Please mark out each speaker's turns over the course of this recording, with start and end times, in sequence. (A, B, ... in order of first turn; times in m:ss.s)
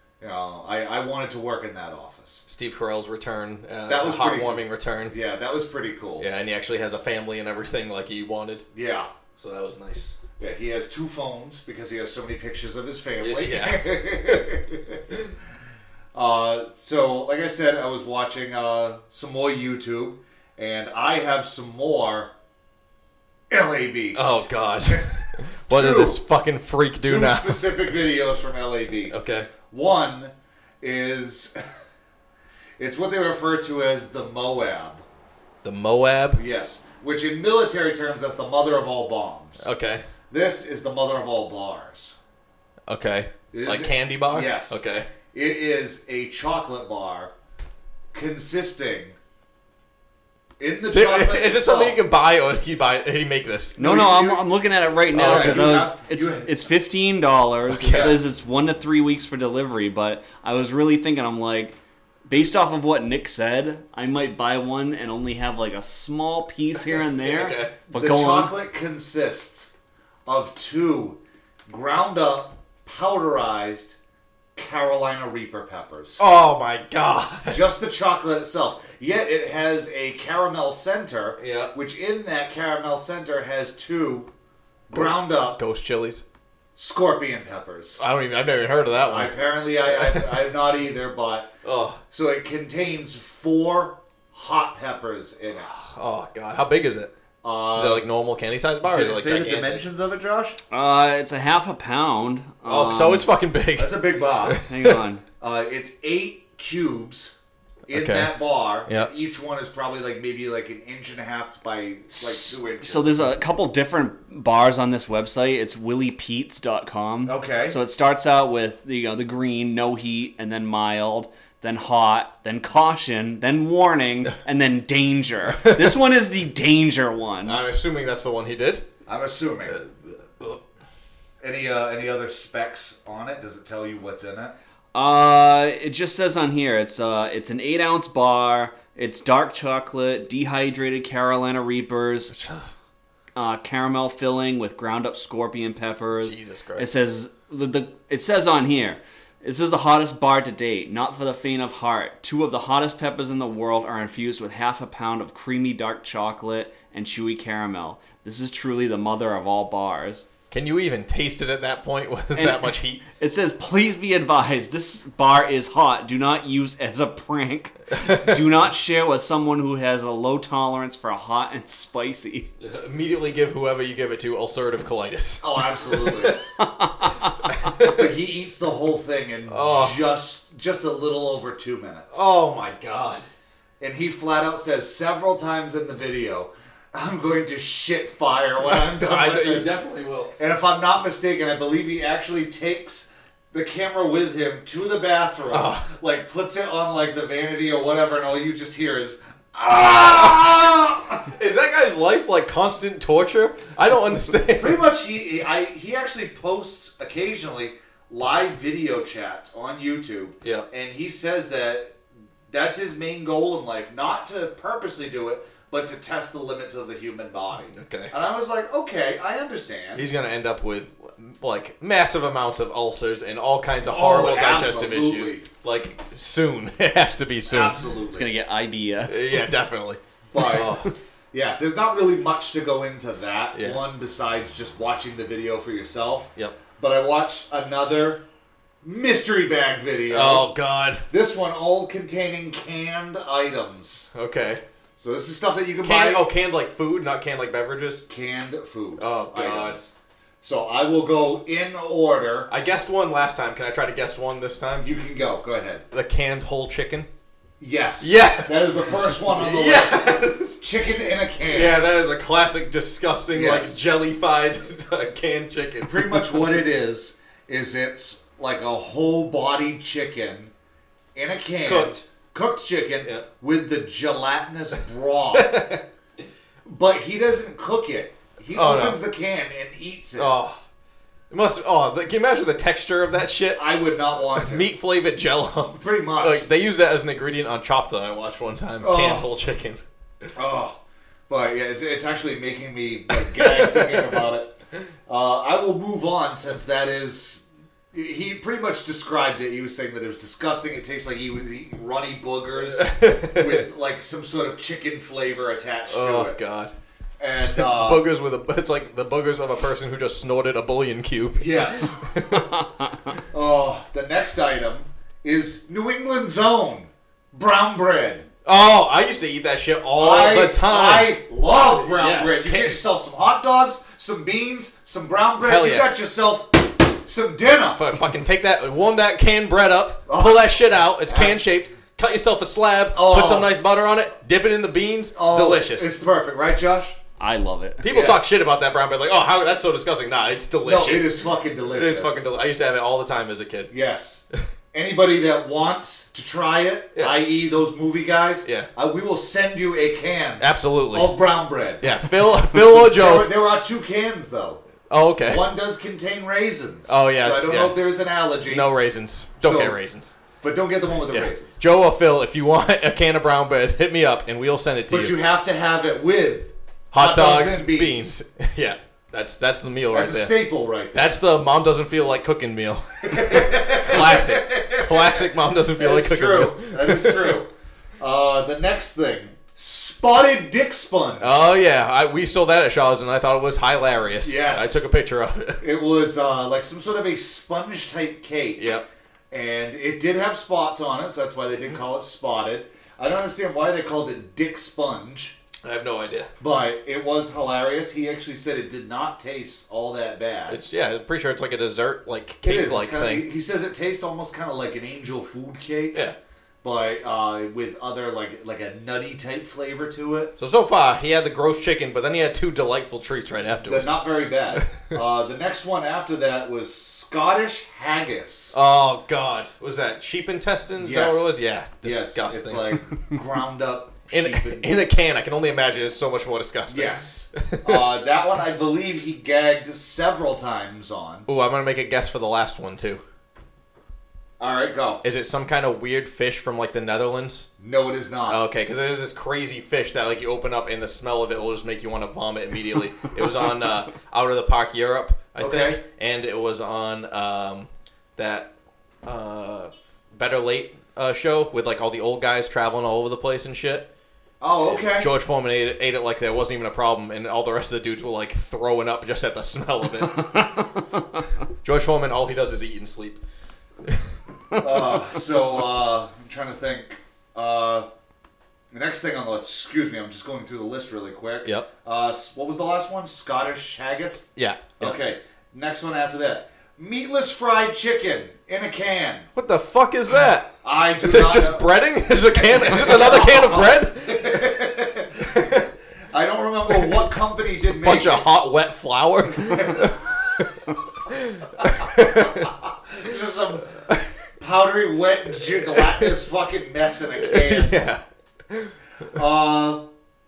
0:00.2-0:02.4 A
0:02.5-0:05.2 B
0:03.9-0:06.3 A
0:06.2-0:08.6 B
0:08.7-0:09.1 A
0:09.4-0:10.2 B
0:10.4-0:15.0 A
0:13.2-0:14.4 B
0:16.1-0:22.3 A
0:23.5-0:25.1 A
0:24.1-0:27.8 B
0:25.7-0:26.2 A
0:27.0-0:31.6 A
0:29.1-0:29.5 B
0:32.8-0:35.0 A
0:35.6-0:36.4 B
0:36.4-0:39.6 A
0:39.6-0:40.0 B
0:40.3-0:42.2 A
0:42.9-0:45.1 B
0:43.5-0:47.3 A
0:48.1-0:49.2 A
0:50.6-0:52.0 A
0:50.9-0:53.8 B
0:53.8-0:54.5 A
0:53.8-1:08.5 C
0:55.1-0:55.9 B
0:55.2-0:56.6 A
0:57.7-0:58.2 B
0:57.8-0:58.2 A
1:06.9-1:07.8 B
1:07.9-1:09.7 A
1:10.3-1:14.0 A
1:14.6-1:16.2 A
1:16.2-1:17.7 B
1:17.5-1:24.3 A
1:21.4-1:21.7 B
1:24.9-1:25.6 A
1:24.9-1:26.2 B
1:26.8-1:28.0 A
1:28.0-1:30.4 B
1:29.0-1:31.5 A
1:31.6-1:32.0 B
1:32.1-1:35.7 A
1:35.6-1:37.1 B
1:37.4-1:38.1 A
1:37.8-1:39.9 B
1:38.8-1:40.6 A
1:40.7-1:43.3 C
1:42.7-1:45.0 B
1:43.8-1:44.6 A
1:44.7-1:45.2 C
1:45.4-1:47.4 A
1:47.9-1:53.3 A
1:47.9-1:48.4 B
1:52.8-2:07.6 C
1:57.3-1:57.8 A
2:05.6-2:06.0 B
2:07.4-2:08.8 B
2:09.1-2:09.8 A
2:09.7-2:10.6 B
2:11.4-2:14.5 A
2:14.9-2:22.4 C
2:22.3-2:22.7 B
2:23.4-2:40.3 C
2:26.2-2:26.9 B
2:40.5-2:43.0 B
2:42.4-2:52.5 C
2:48.0-2:48.3 B
2:52.6-2:56.4 B
2:55.4-2:56.4 A
2:56.6-2:57.4 C
2:57.5-2:58.1 B
2:57.8-3:02.1 A
2:59.5-3:00.0 B
3:02.1-3:03.2 B
3:03.8-3:09.8 A
3:08.7-3:10.3 B
3:10.4-3:21.3 A
3:15.5-3:15.9 B
3:19.9-3:20.5 B
3:21.3-3:24.9 B
3:24.6-3:32.0 A
3:32.5-3:40.1 A
3:37.7-3:38.1 B
3:40.0-3:47.8 B
3:43.9-3:45.5 A
3:47.5-3:48.3 A
3:48.1-3:49.5 C
3:49.1-3:50.9 B
3:50.3-3:58.2 A
3:53.5-3:53.8 B
3:58.8-4:00.5 A
4:00.1-4:01.1 B
4:01.1-4:04.1 A
4:04.1-4:04.6 B
4:05.0-4:06.3 A
4:05.8-4:08.0 B
4:08.1-4:12.5 A
4:09.0-4:09.8 B
4:12.5-4:14.9 B
4:14.8-4:15.8 A
4:15.9-4:17.1 B
4:17.6-4:21.8 A
4:18.0-4:20.6 B
4:21.5-4:26.5 B
4:23.3-4:23.8 A
4:25.8-4:30.5 A
4:31.2-4:35.8 A
4:31.6-4:32.0 B
4:35.3-4:35.8 B
4:36.7-4:40.3 A
4:38.6-4:39.0 B
4:40.2-4:40.6 B
4:41.3-4:43.7 B
4:43.6-4:44.7 A
4:44.3-4:50.3 B
4:45.7-4:46.5 A
4:48.8-4:49.3 A
4:50.4-5:06.4 A
4:53.3-4:54.1 B
5:02.7-5:03.7 B
5:05.9-5:06.7 B
5:07.2-5:08.1 A
5:07.4-5:12.6 B
5:11.4-5:12.1 A
5:12.4-5:12.9 C
5:13.3-5:18.3 A
5:18.4-5:22.8 B
5:20.0-5:27.8 A
5:25.4-5:26.0 B
5:27.7-5:35.9 B
5:30.1-5:31.5 A
5:32.9-5:33.5 A
5:35.2-5:37.0 A
5:37.2-5:37.8 C
5:37.8-5:43.7 B
5:37.9-5:38.3 A
5:40.6-5:42.3 A
5:43.7-5:54.6 A
5:48.4-5:48.7 B
5:50.4-5:51.2 B
5:51.8-5:53.4 B
5:54.9-5:55.5 B
5:55.3-5:58.7 A
5:56.9-5:57.8 B
5:58.4-6:00.1 B
5:59.4-5:59.8 A
6:00.4-6:01.6 A
6:01.1-6:05.2 B
6:04.9-6:08.1 A
6:06.9-6:10.3 B
6:09.9-6:11.1 A
6:10.9-6:17.4 B
6:13.1-6:21.3 A
6:21.2-6:25.7 B
6:24.2-6:24.9 A
6:25.6-6:28.7 A
6:28.6-6:28.8 B
6:29.3-6:35.4 A
6:35.6-6:36.3 B
6:36.4-6:40.6 A
6:40.5-6:43.3 B
6:42.4-6:46.0 A
6:46.6-6:50.3 A
6:50.4-6:54.0 B
6:53.6-6:58.6 A
6:58.5-7:02.8 B
7:00.8-7:04.7 A
7:04.1-7:07.8 B
7:06.7-7:11.3 A
7:11.3-7:13.0 B
7:14.4-7:15.0 A
7:15.0-7:17.5 B
7:17.6-7:18.4 A
7:18.3-7:28.5 B
7:25.4-7:25.8 A
7:29.0-7:33.9 B
7:34.4-7:35.1 A
7:34.6-7:40.5 B
7:40.1-7:41.2 C
7:41.6-7:43.2 B
7:44.6-7:47.9 A
7:48.7-7:54.2 A
7:53.9-7:55.0 B
7:54.8-7:59.3 A
7:59.4-8:04.5 B
8:00.2-8:05.4 A
8:05.2-8:05.7 B
8:06.1-8:08.3 A
8:07.6-8:12.5 B
8:09.4-8:09.9 A
8:11.6-8:13.8 A
8:14.4-8:17.9 A
8:17.2-8:18.7 B
8:19.1-8:19.9 A